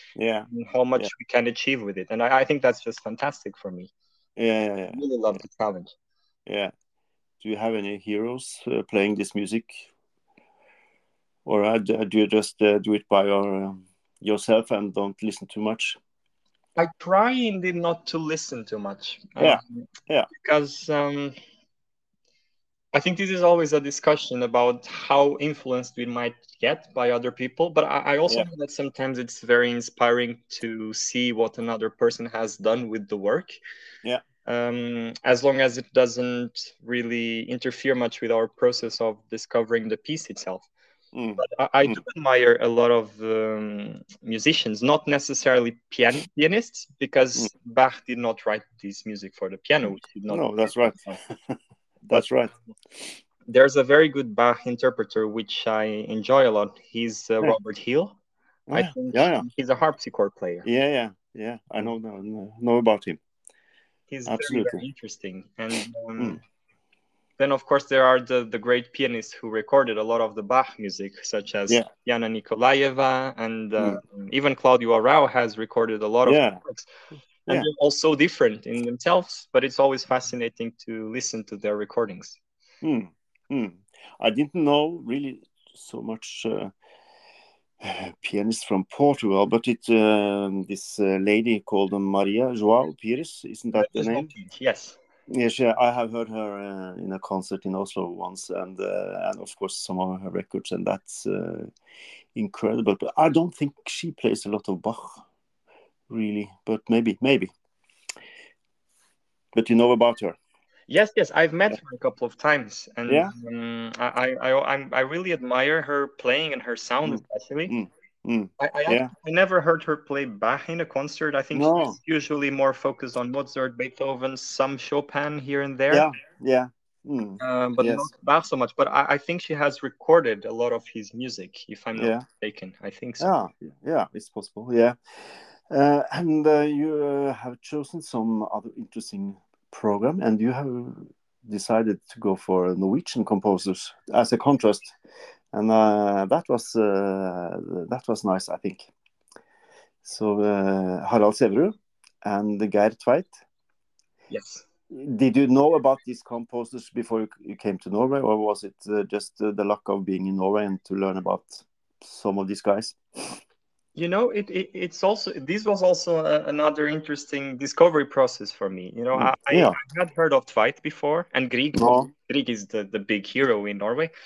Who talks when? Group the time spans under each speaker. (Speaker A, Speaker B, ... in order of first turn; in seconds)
Speaker A: 0.1-1.1, 4.4-5.4, 6.5-6.7, 7.4-9.9, 11.4-16.0, 19.4-20.3, 41.1-42.0, 49.9-51.0, 52.1-52.5, 58.7-59.5, 60.6-63.2, 64.2-64.8, 76.2-76.6, 82.8-86.7, 87.8-94.3, 95.3-101.7, 102.3-105.2, 106.1-107.5, 109.5-110.4, 113.1-113.3, 117.0-119.1, 121.5-122.0, 125.9-128.1, 131.9-132.2, 133.2-144.9, 145.5-148.9, 150.0-153.4, 154.9-163.0, 169.1-169.8, 171.7-172.1
Speaker B: 0.5-3.9, 4.9-5.9, 16.8-19.8, 20.4-21.3, 22.9-33.6, 34.5-40.7, 41.4-51.2, 53.5-58.2, 58.7-60.6, 64.1-66.4, 67.4-76.9, 77.5-82.4, 93.7-95.0, 110.9-117.7, 118.6-126.1, 127.4-133.3, 154.3-154.7, 163.9-174.1